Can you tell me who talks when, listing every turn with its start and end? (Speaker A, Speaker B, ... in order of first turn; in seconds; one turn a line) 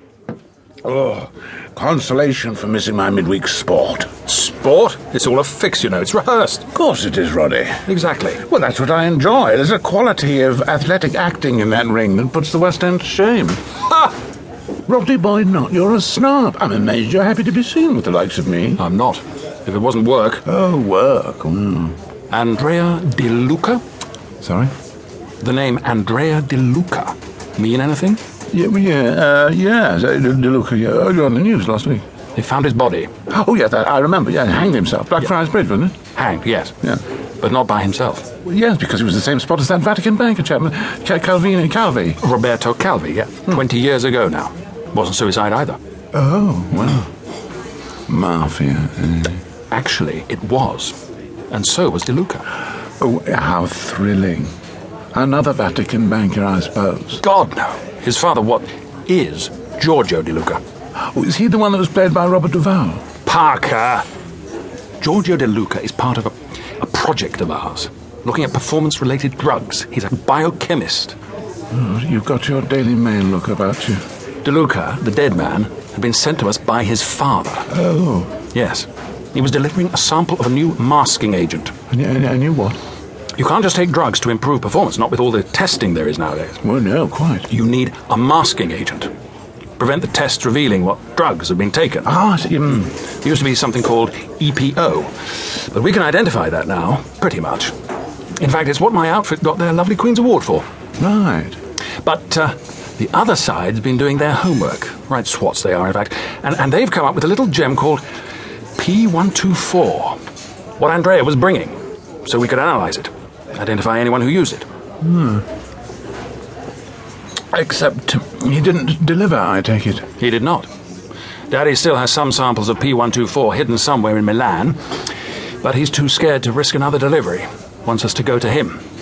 Speaker A: 0.8-4.1
Speaker B: 4.3-6.7
Speaker A: 6.7-7.8
Speaker B: 7.9-8.4
Speaker A: 8.4-13.6
Speaker A: 14.9-18.8
Speaker B: 18.8-20.4
Speaker A: 20.4-21.9
Speaker B: 22.3-23.8
Speaker A: 24.4-24.7
Speaker B: 25.4-28.2
Speaker A: 28.5-32.0
Speaker B: 32.4-33.1
Speaker A: 33.3-36.0
Speaker B: 36.1-36.8
Speaker B: 37.4-38.3
Speaker A: 38.4-42.2
Speaker B: 42.2-45.8
Speaker A: 46.1-47.1
Speaker A: 48.1-49.4
Speaker B: 49.7-51.0
Speaker B: 51.5-52.5
Speaker A: 53.0-54.5
Speaker A: 55.1-57.2
Speaker B: 57.2-60.6
Speaker A: 61.0-63.0
Speaker B: 63.2-64.1
Speaker B: 65.0-71.2
Speaker A: 71.7-74.0
Speaker B: 74.4-77.7
Speaker A: 77.7-78.3
Speaker B: 78.5-81.7
Speaker A: 81.9-82.8
Speaker B: 83.4-86.6
Speaker A: 86.6-87.5
Speaker B: 87.5-89.1
Speaker B: 89.8-92.1
Speaker A: 92.0-92.9
Speaker B: 93.2-97.7
Speaker B: 98.4-100.7
Speaker A: 101.0-101.6
Speaker B: 102.0-108.0
Speaker B: 108.8-110.2
Speaker B: 110.8-114.7
Speaker A: 115.0-115.4
Speaker A: 117.5-120.1
Speaker B: 120.2-120.7
Speaker B: 121.5-124.8
Speaker B: 125.6-128.8